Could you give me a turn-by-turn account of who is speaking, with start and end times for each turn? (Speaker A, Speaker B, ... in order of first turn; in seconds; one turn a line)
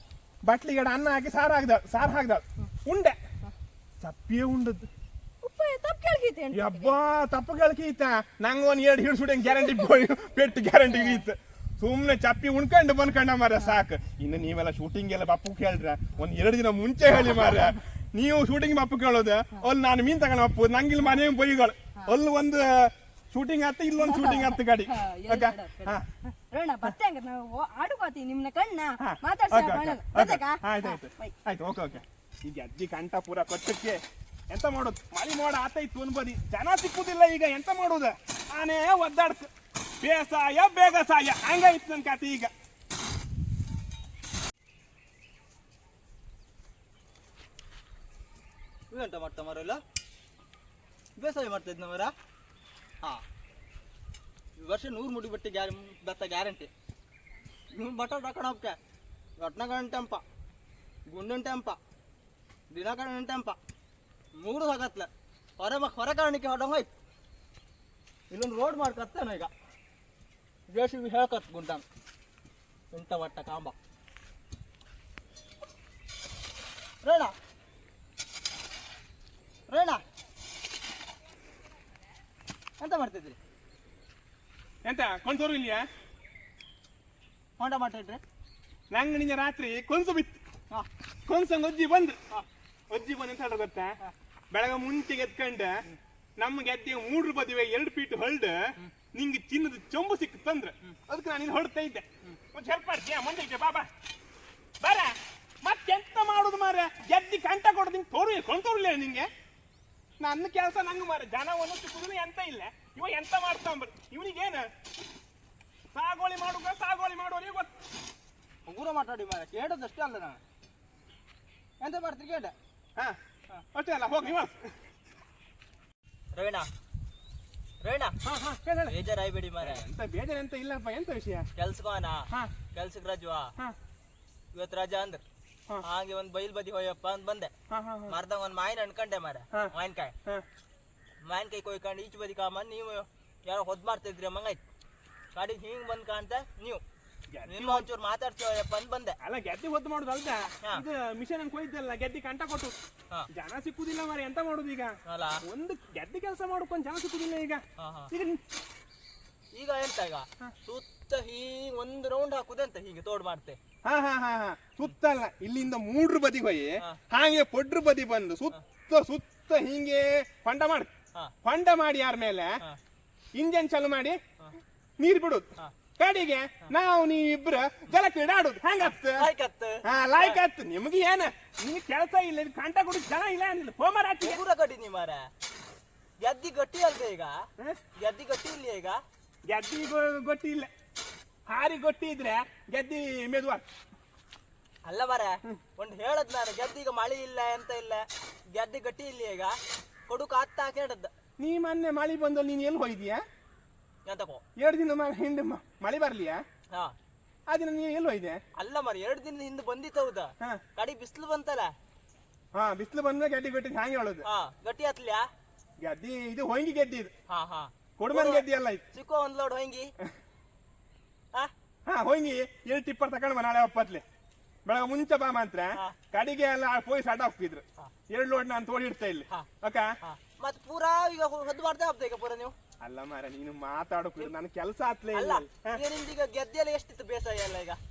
Speaker A: 0.4-3.2
Speaker A: 4.0-4.9
Speaker B: 5.4-7.0
Speaker A: 6.5-26.1
Speaker B: 9.6-9.8
Speaker B: 11.0-11.2
Speaker B: 24.0-31.3
Speaker A: 29.0-42.5
Speaker C: 48.9-49.8
Speaker C: 51.2-52.1
Speaker C: 54.6-56.7
Speaker C: 57.7-58.8
Speaker C: 59.4-60.2
Speaker C: 61.1-61.8
Speaker C: 62.7-63.6
Speaker C: 64.4-66.9
Speaker C: 68.3-69.5
Speaker C: 70.7-71.8
Speaker C: 72.9-73.7
Speaker C: 77.0-77.3
Speaker C: 79.7-80.0
Speaker C: 82.8-83.4
Speaker A: 84.8-85.8
Speaker C: 87.6-88.2
Speaker A: 88.9-90.4
Speaker A: 91.3-92.2
Speaker A: 92.9-93.9
Speaker A: 94.5-95.8
Speaker A: 96.4-103.9
Speaker A: 104.8-109.3
Speaker A: 110.2-114.7
Speaker A: 115.9-117.7
Speaker C: 118.7-120.4
Speaker C: 121.8-122.5
Speaker A: 123.7-124.7
Speaker C: 126.3-126.7
Speaker C: 127.8-128.2
Speaker A: 128.2-129.0
Speaker C: 128.9-129.8
Speaker A: 129.6-131.5
Speaker C: 131.5-133.5
Speaker C: 134.5-135.2
Speaker C: 135.8-137.5
Speaker A: 137.7-138.2
Speaker C: 138.1-140.2
Speaker C: 141.2-144.6
Speaker C: 145.3-146.8
Speaker A: 147.3-147.9
Speaker C: 147.5-149.2
Speaker A: 149.2-152.8
Speaker A: 153.3-158.4
Speaker C: 155.1-155.4
Speaker C: 157.8-158.1
Speaker C: 159.5-163.6
Speaker A: 163.8-170.9
Speaker A: 171.4-172.6
Speaker A: 173.3-174.2
Speaker A: 175.0-179.3
Speaker C: 178.8-180.4
Speaker A: 179.8-184.4
Speaker C: 184.2-185.3
Speaker C: 186.2-187.4
Speaker C: 187.9-189.0
Speaker A: 189.5-190.7
Speaker A: 191.5-193.6
Speaker C: 194.8-201.1
Speaker A: 201.4-203.2
Speaker C: 204.1-204.4
Speaker A: 204.6-206.4
Speaker A: 207.5-208.4
Speaker C: 208.5-211.7
Speaker A: 212.5-214.2
Speaker C: 214.2-215.2
Speaker A: 215.8-217.1
Speaker C: 217.3-219.9
Speaker A: 218.0-218.8
Speaker A: 221.8-224.0
Speaker A: 224.6-229.9
Speaker C: 230.0-232.5
Speaker A: 232.8-235.8
Speaker C: 235.1-237.8